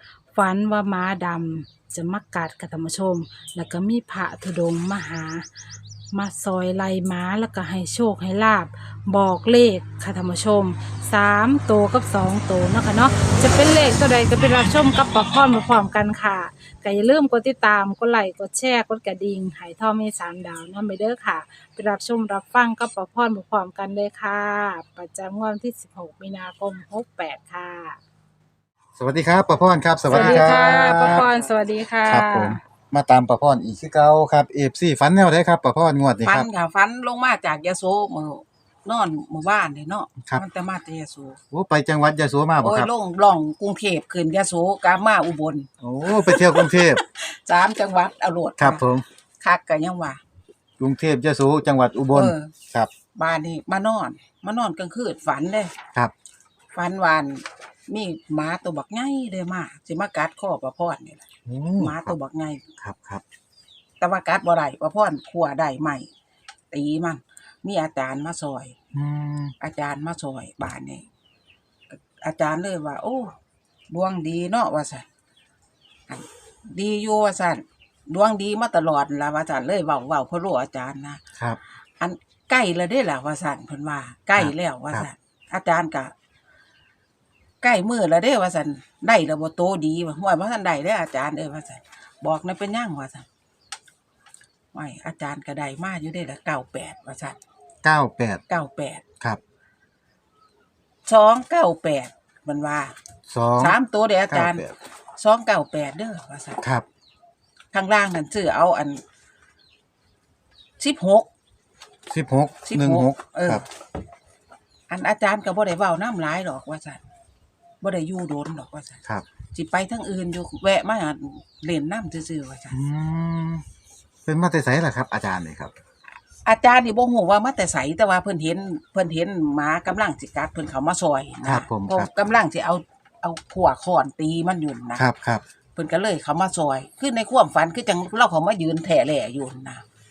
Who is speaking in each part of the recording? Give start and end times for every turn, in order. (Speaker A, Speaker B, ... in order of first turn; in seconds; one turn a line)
Speaker A: 0.3-5.5
Speaker A: 6.1-28.0
Speaker B: 28.9-31.2
Speaker A: 30.1-32.6
Speaker C: 30.1-31.5
Speaker B: 32.0-36.5
Speaker C: 36.2-41.4
Speaker B: 41.5-42.9
Speaker C: 42.6-48.8
Speaker B: 45.8-47.0
Speaker B: 48.6-49.0
Speaker C: 49.4-50.2
Speaker B: 50.8-52.9
Speaker C: 52.1-52.5
Speaker C: 53.2-55.7
Speaker C: 56.7-61.3
Speaker B: 61.5-62.1
Speaker C: 61.8-62.6
Speaker B: 62.8-63.2
Speaker C: 64.0-66.1
Speaker C: 66.7-68.8
Speaker B: 68.9-69.5
Speaker C: 69.6-71.0
Speaker C: 71.9-73.3
Speaker C: 73.9-75.0
Speaker C: 76.1-81.2
Speaker C: 82.0-86.1
Speaker B: 84.4-85.1
Speaker C: 87.6-93.2
Speaker C: 94.7-97.4
Speaker B: 97.8-98.4
Speaker C: 98.5-99.0
Speaker C: 101.1-102.9
Speaker B: 103.3-103.8
Speaker C: 103.6-104.6
Speaker B: 104.3-104.7
Speaker C: 105.2-106.6
Speaker C: 107.7-109.0
Speaker C: 110.8-111.3
Speaker B: 112.1-113.6
Speaker C: 112.7-113.6
Speaker C: 114.9-117.0
Speaker C: 117.8-119.0
Speaker C: 119.5-122.8
Speaker B: 122.7-123.6
Speaker B: 124.3-125.7
Speaker C: 126.5-135.1
Speaker B: 131.4-132.1
Speaker B: 134.9-135.4
Speaker C: 135.8-139.8